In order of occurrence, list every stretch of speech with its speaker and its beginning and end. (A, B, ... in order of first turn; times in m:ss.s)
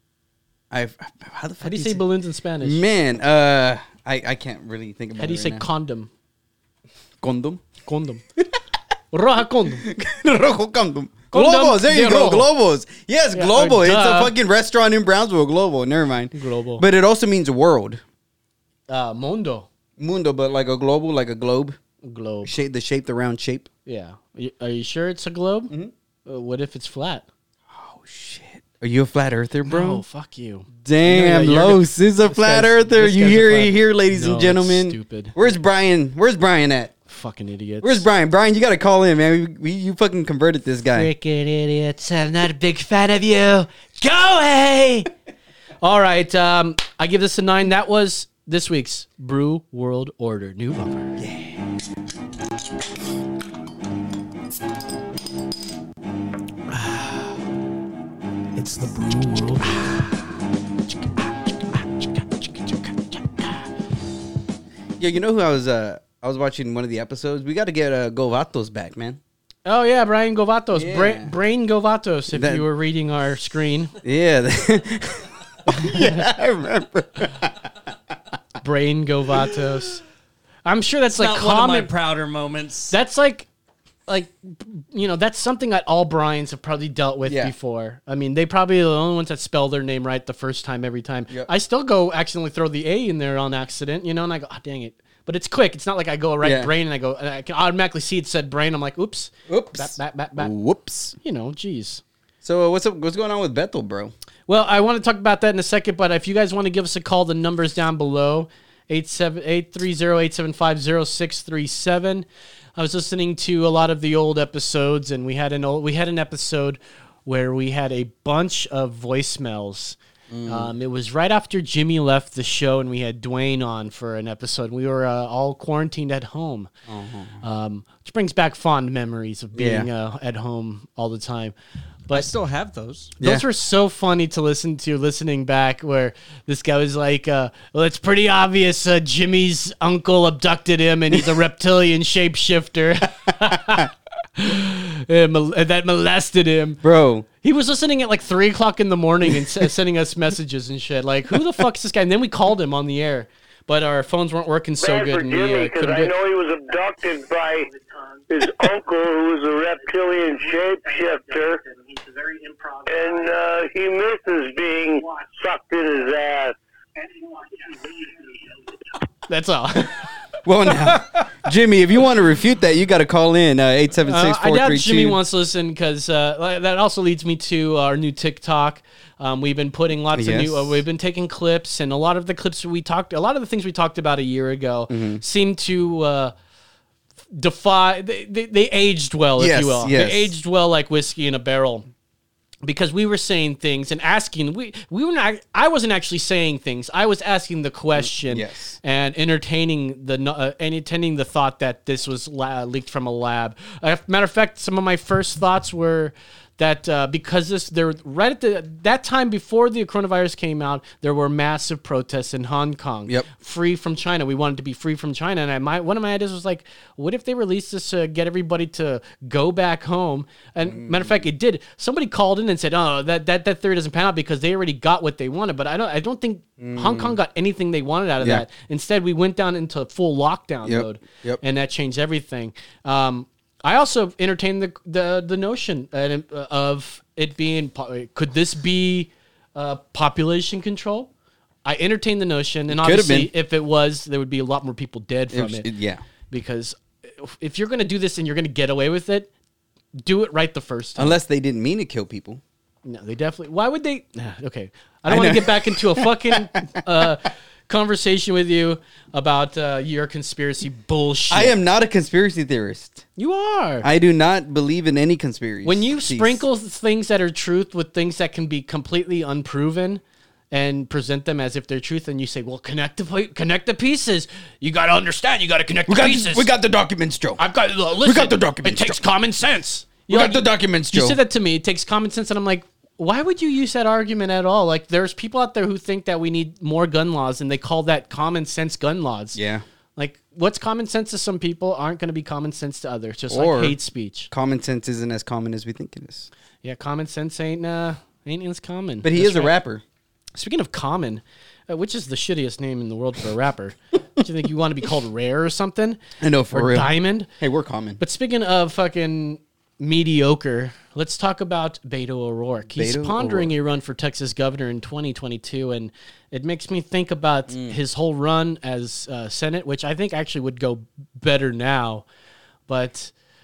0:00.7-0:02.0 A
0:01.6-0:02.8 B
0:02.6-0:05.6 A
0:05.2-0:06.1 B
0:07.2-0:07.6 A
0:07.8-0:08.2 B
0:09.1-0:09.8 B
0:09.8-0:18.0 A
0:11.3-0:12.5 B
0:13.3-0:14.3 B
0:16.3-0:16.8 B
0:18.9-0:19.7 B
0:20.0-0:21.8 A
0:22.0-0:22.5 B
0:22.4-0:23.7 A
0:23.8-0:25.7 B
0:26.2-0:27.2 B
0:27.7-0:30.0 A
0:29.7-0:35.4 B
0:30.8-0:36.9 A
0:37.1-0:38.0 B
0:37.8-0:41.1 A
0:40.9-0:45.1 B
0:45.8-0:51.2 B
0:51.2-0:51.6 A
1:05.0-1:09.2 A
1:09.6-1:13.9 B
1:10.7-1:11.3 A
1:12.3-1:12.6 A
1:14.0-1:17.6 A
1:15.7-1:16.2 B
1:18.6-1:20.0 B
1:20.6-1:21.9 B
1:21.1-1:22.9 C
1:22.9-1:23.5 B
1:24.1-1:40.5 B
1:27.2-1:27.5 A
1:36.4-1:36.7 A
1:39.5-1:41.1 A
1:41.2-1:42.0 B
1:42.4-1:44.1 A
1:44.5-1:52.2 B
1:52.8-2:06.7 B
2:00.3-2:00.7 A
2:06.9-2:07.4 A
2:07.4-2:11.5 B
2:09.5-2:09.9 A
2:12.1-2:13.1 C
2:13.2-2:13.4 A
2:13.2-2:26.8 B
2:26.8-2:27.2 A
2:27.4-2:36.1 B
2:34.8-2:37.7 D
2:38.3-2:41.6 D
2:42.9-2:46.6 D
2:49.3-2:50.1 B
2:50.4-2:55.2 A
2:54.0-3:06.3 B
3:00.1-3:00.8 A
3:04.9-3:05.2 A
3:07.3-3:11.9 B
3:09.4-3:10.3 A
3:12.6-4:01.1 B
3:18.0-3:18.8 A
3:40.7-3:41.2 A
3:46.6-3:47.2 A
3:50.6-3:51.4 A
4:01.6-4:05.7 B
4:02.7-4:03.3 A
4:05.3-4:06.0 A
4:06.3-4:09.3 B
4:10.0-4:11.2 B
4:11.0-4:12.4 A
4:12.8-4:21.6 B
4:15.1-4:16.3 A
4:21.3-4:23.0 A
4:23.2-4:23.8 B
4:23.8-4:26.4 A
4:25.6-4:36.5 B
4:35.9-4:37.4 A
4:37.4-4:49.4 B
4:38.0-4:39.0 A
4:40.1-4:41.2 A
4:49.3-4:49.6 A
4:50.0-4:54.3 B
4:53.3-4:53.8 A
4:54.3-4:56.3 A
4:56.6-4:59.5 B
4:59.0-4:59.8 A
5:00.4-5:06.0 B
5:06.2-5:08.0 A
5:06.5-5:07.3 B
5:08.0-5:22.0 B
5:12.8-5:13.5 A
5:17.5-5:17.8 A
5:22.7-5:23.1 B